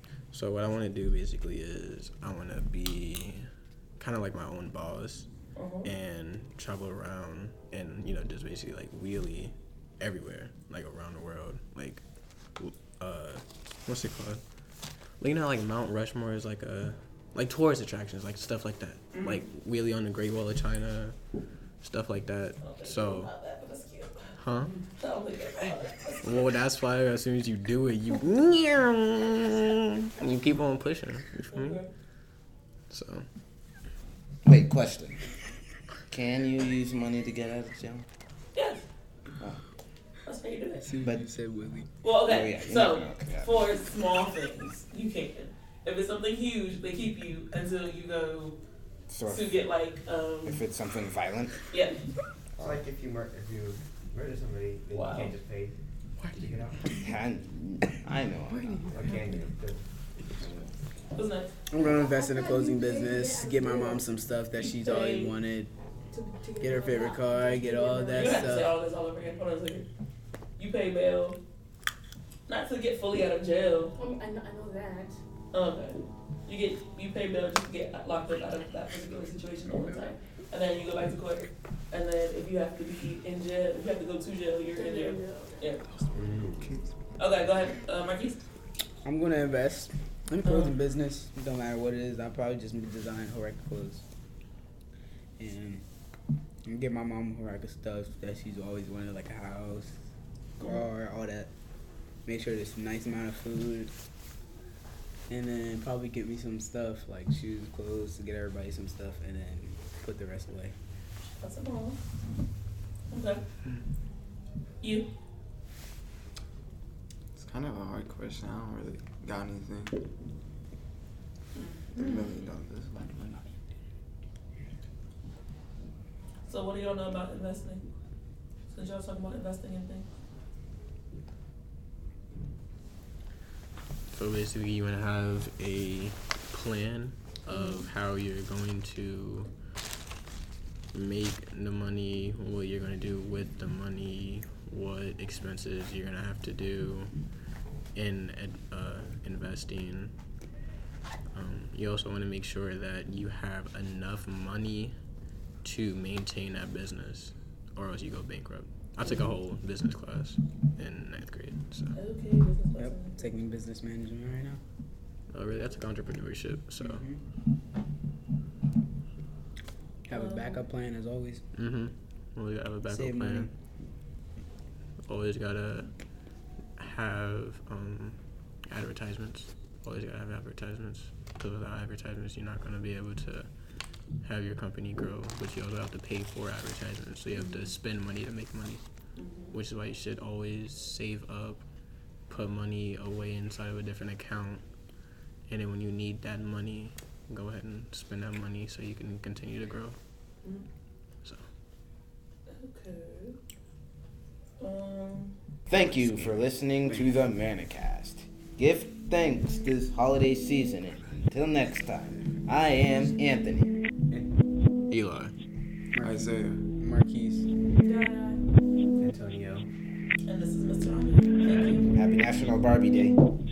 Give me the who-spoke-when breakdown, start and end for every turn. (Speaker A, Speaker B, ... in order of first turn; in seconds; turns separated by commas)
Speaker A: 0.3-3.5, Speaker A: 4.0-5.2, Speaker B: 5.5-5.9, Speaker A: 5.8-12.0, Speaker A: 12.6-14.4, Speaker A: 15.2-21.1, Speaker B: 19.1-19.4, Speaker A: 21.8-23.3, Speaker B: 22.6-24.4, Speaker A: 24.4-24.7, Speaker B: 24.9-26.5, Speaker A: 26.2-31.8, Speaker B: 31.4-31.9, Speaker A: 32.9-33.2, Speaker C: 34.4-35.2, Speaker C: 36.1-38.0, Speaker B: 38.5-38.8, Speaker B: 40.2-40.9, Speaker D: 40.8-41.9, Speaker C: 41.0-41.3, Speaker B: 42.0-48.5, Speaker C: 42.2-43.6, Speaker C: 49.1-49.5, Speaker B: 49.2-50.6, Speaker C: 50.4-51.6, Speaker B: 51.7-52.0, Speaker E: 52.6-55.8, Speaker B: 54.9-55.3, Speaker E: 56.3-56.9, Speaker C: 57.0-58.9, Speaker D: 58.5-59.1, Speaker E: 58.9-60.7, Speaker B: 61.1-61.5, Speaker D: 61.7-65.7, Speaker F: 61.8-64.1, Speaker B: 64.6-65.3, Speaker F: 66.1-68.6, Speaker D: 66.6-68.7, Speaker B: 68.1-69.8, Speaker B: 70.6-71.4, Speaker B: 72.5-73.9, Speaker F: 74.0-75.2, Speaker B: 75.5-85.8, Speaker F: 84.7-85.7, Speaker G: 86.0-86.9, Speaker E: 86.1-86.7, Speaker B: 87.2-88.4, Speaker D: 89.0-94.1, Speaker B: 90.4-90.7, Speaker D: 95.4-95.8, Speaker D: 96.6-100.0, Speaker B: 100.6-100.8, Speaker D: 100.6-101.5, Speaker D: 102.2-103.9, Speaker D: 105.3-110.7, Speaker B: 111.4-112.0, Speaker B: 113.1-113.4, Speaker B: 114.8-115.1, Speaker G: 117.3-120.0, Speaker B: 121.5-121.8, Speaker G: 121.9-123.5, Speaker B: 126.5-127.8, Speaker B: 128.7-130.1, Speaker A: 134.1-139.5, Speaker B: 137.5-137.8, Speaker A: 140.9-147.1, Speaker A: 147.9-150.1, Speaker A: 151.3-154.9, Speaker A: 155.6-161.9, Speaker B: 161.9-163.3, Speaker D: 162.8-164.6, Speaker A: 165.3-167.0, Speaker D: 166.8-167.2, Speaker D: 170.1-171.4, Speaker B: 170.1-170.6, Speaker A: 171.6-173.5, Speaker D: 172.9-173.5, Speaker A: 175.1-175.9, Speaker A: 176.8-183.5, Speaker A: 184.2-188.8, Speaker B: 189.2-189.5, Speaker A: 189.5-191.6, Speaker A: 192.3-194.6, Speaker A: 195.5-199.9, Speaker B: 202.5-203.4, Speaker B: 204.6-205.3, Speaker C: 205.7-213.7, Speaker A: 205.8-206.3, Speaker A: 214.9-215.3, Speaker D: 215.9-217.4, Speaker G: 216.0-216.7, Speaker F: 217.8-218.4, Speaker E: 219.0-219.7, Speaker B: 220.2-221.9, Speaker C: 221.9-223.2